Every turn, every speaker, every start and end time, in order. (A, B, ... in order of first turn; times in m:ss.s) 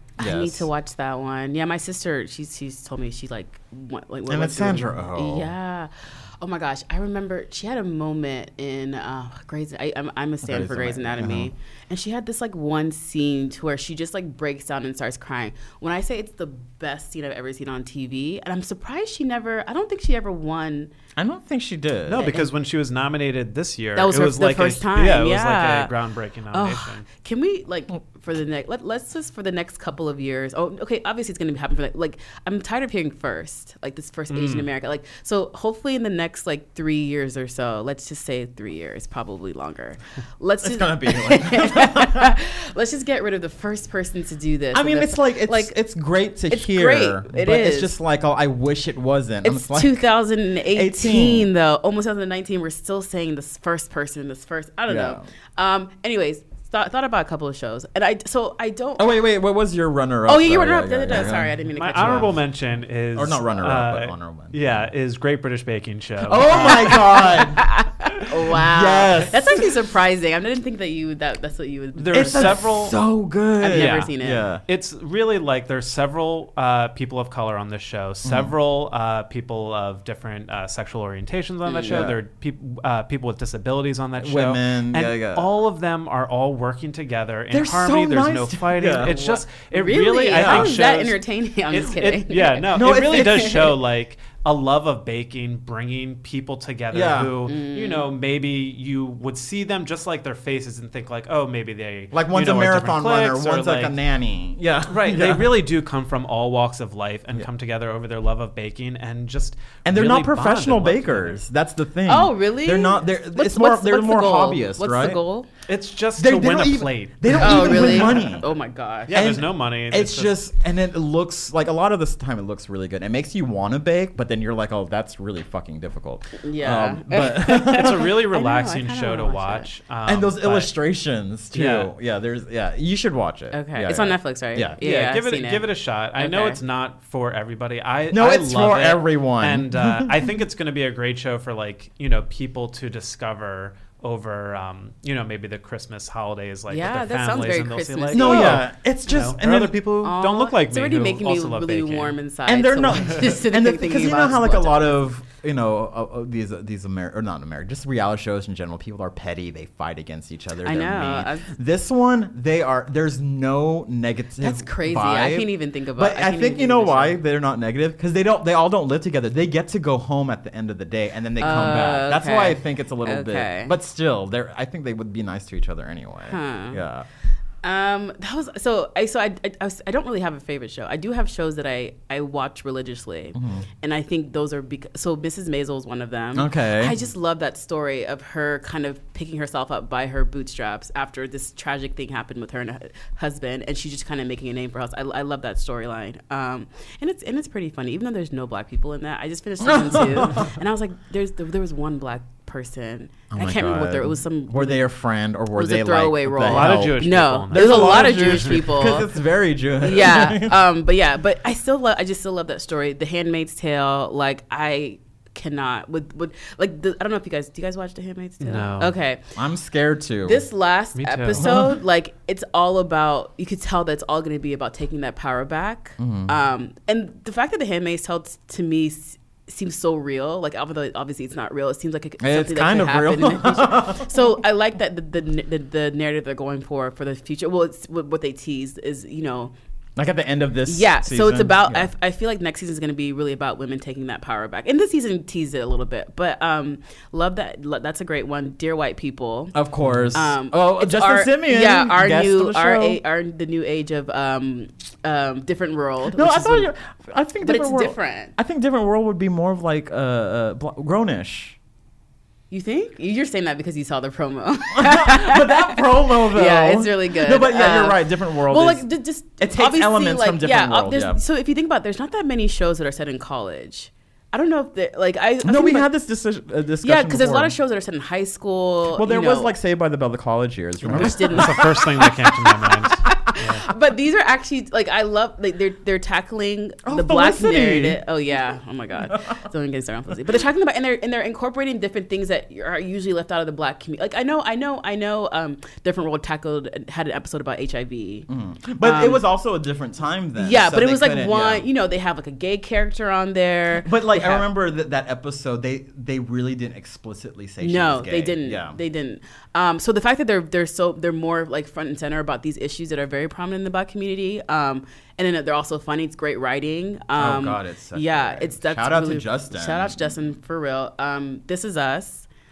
0:00.2-0:00.7 A
0:00.2-0:20.9 B
0:04.3-0:05.5 A
0:10.4-0:11.5 A
0:21.2-0:22.3 A
0:22.1-0:27.1 C
0:22.1-0:22.5 B
0:24.0-0:25.9 B
0:26.5-0:45.8 B
0:34.3-0:34.7 C
0:40.6-0:42.4 A
0:44.7-0:50.1 A
0:46.5-0:47.9 B
0:49.4-0:59.1 B
0:50.7-0:51.5 A
0:54.9-0:55.3 A
0:59.0-1:02.4 A
1:00.3-1:02.4 B
1:01.8-1:07.2 C
1:03.1-1:04.9 A
1:06.2-1:07.6 A
1:06.5-1:12.6 B
1:08.2-1:09.7 A
1:12.0-1:13.0 C
1:12.1-1:14.6 A
1:13.6-1:14.5 B
1:13.7-1:14.1 C
1:14.7-1:43.9 C
1:18.2-1:18.5 A
1:21.6-1:22.1 B
1:21.9-1:22.2 A
1:24.2-1:25.5 A
1:27.5-1:29.2 A
1:29.0-1:33.3 B
1:30.3-1:30.8 A
1:32.7-1:33.8 A
1:36.9-1:37.4 A
1:37.4-1:38.1 B
1:42.1-1:45.5 A
1:44.9-1:51.4 C
1:49.8-1:55.2 A
1:52.1-1:55.5 B
1:55.7-1:58.2 C
1:56.2-1:58.4 A
1:57.4-1:59.4 B
1:59.1-2:00.4 C
1:59.1-2:08.1 A
2:06.4-2:09.7 B
2:07.6-2:10.7 C
2:10.1-2:14.8 A
2:11.5-2:11.9 C
2:13.5-2:16.6 B
2:14.8-2:32.2 C
2:18.1-2:20.4 A
2:26.7-2:28.6 B
2:28.1-2:29.9 A
2:30.0-2:35.0 B
2:32.5-2:57.1 A
2:40.6-2:41.5 B
2:44.4-2:47.2 B
2:51.4-2:53.7 B
2:56.3-2:56.8 B
2:57.6-3:24.8 B
3:03.4-3:03.6 A
3:06.4-3:07.0 A
3:19.6-3:20.6 A
3:23.3-3:30.6 A
3:25.6-3:29.1 B
3:26.4-3:28.8 C
3:29.8-3:39.2 B
3:38.4-3:39.0 C
3:39.4-3:40.5 A
3:40.2-3:59.5 B
3:41.0-3:41.4 C
3:41.3-3:41.8 A
3:46.0-3:46.3 A
3:52.2-3:54.1 A
4:00.0-4:01.9 A
4:00.7-4:09.6 B
4:09.5-4:13.0 A
4:09.8-4:10.2 C
4:10.1-4:16.7 B
4:16.1-4:21.6 A
4:17.4-4:18.4 B
4:22.5-4:35.9 B
4:24.7-4:28.9 A
4:29.4-4:31.2 A
4:35.4-4:37.6 A
4:36.8-4:39.5 B
4:38.9-4:43.4 A
4:40.9-4:41.9 B
4:40.9-4:43.7 C
4:43.1-4:58.3 B
4:46.8-4:48.0 A
4:49.0-4:49.4 A
4:58.3-5:01.7 A
4:58.8-4:59.2 B
5:00.4-5:04.4 B
5:03.8-5:08.8 A
5:07.6-5:22.3 B
5:17.2-5:20.2 A